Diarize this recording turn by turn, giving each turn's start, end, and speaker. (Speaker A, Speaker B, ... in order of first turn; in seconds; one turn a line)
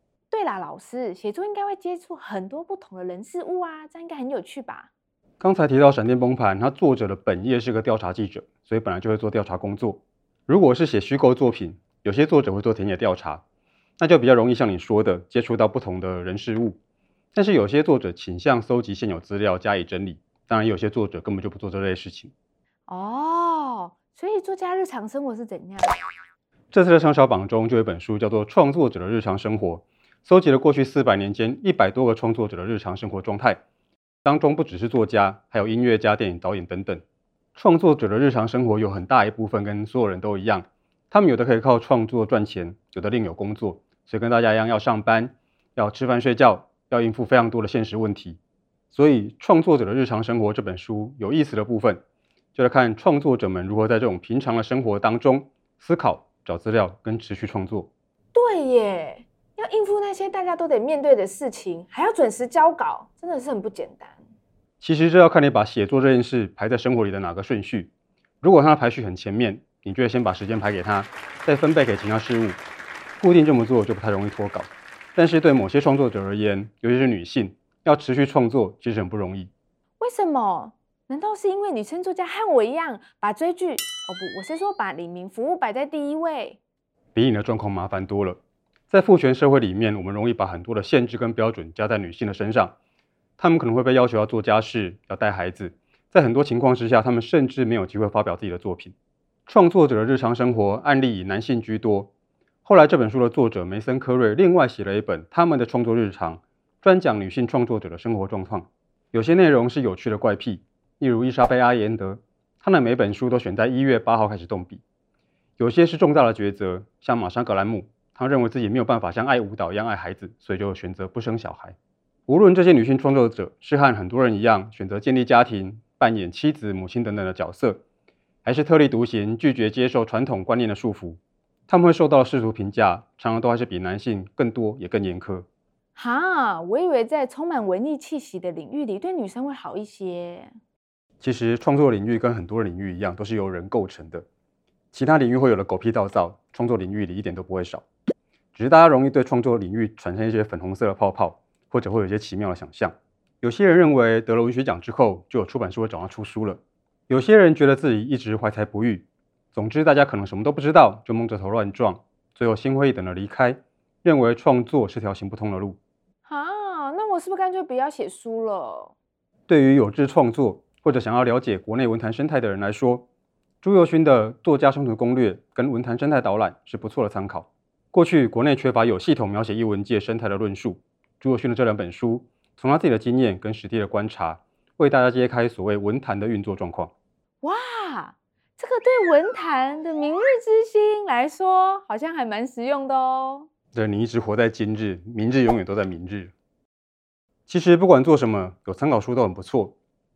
Speaker A: 0.3-4.9
Speaker B: 5.4-13.4
Speaker B: 14.0-16.8
Speaker B: 17.3-22.3
Speaker A: 22.9-26.0
Speaker B: 26.7-33.6
Speaker B: 34.2-37.0
Speaker B: 37.5-48.4
Speaker B: 48.9-52.0
Speaker B: 52.5-57.9
Speaker A: 58.3-64.2
Speaker B: 64.8-72.6
Speaker B: 73.2-79.5
Speaker A: 80.0-86.6
Speaker B: 87.1-92.7
Speaker B: 93.4-98.9
Speaker B: 99.5-102.1
Speaker B: 102.6-114.8
Speaker B: 115.6-121.8
Speaker B: 122.3-127.8
Speaker B: 128.4-135.4
Speaker A: 135.9-140.5
Speaker B: 141.2-144.2
Speaker B: 144.9-147.8
Speaker B: 148.6-165.8
Speaker A: 166.2-168.9
Speaker B: 169.5-173.1
Speaker B: 173.6-186.9
Speaker A: 187.4-193.5
Speaker B: 193.7-196.3
Speaker B: 197.5-199.8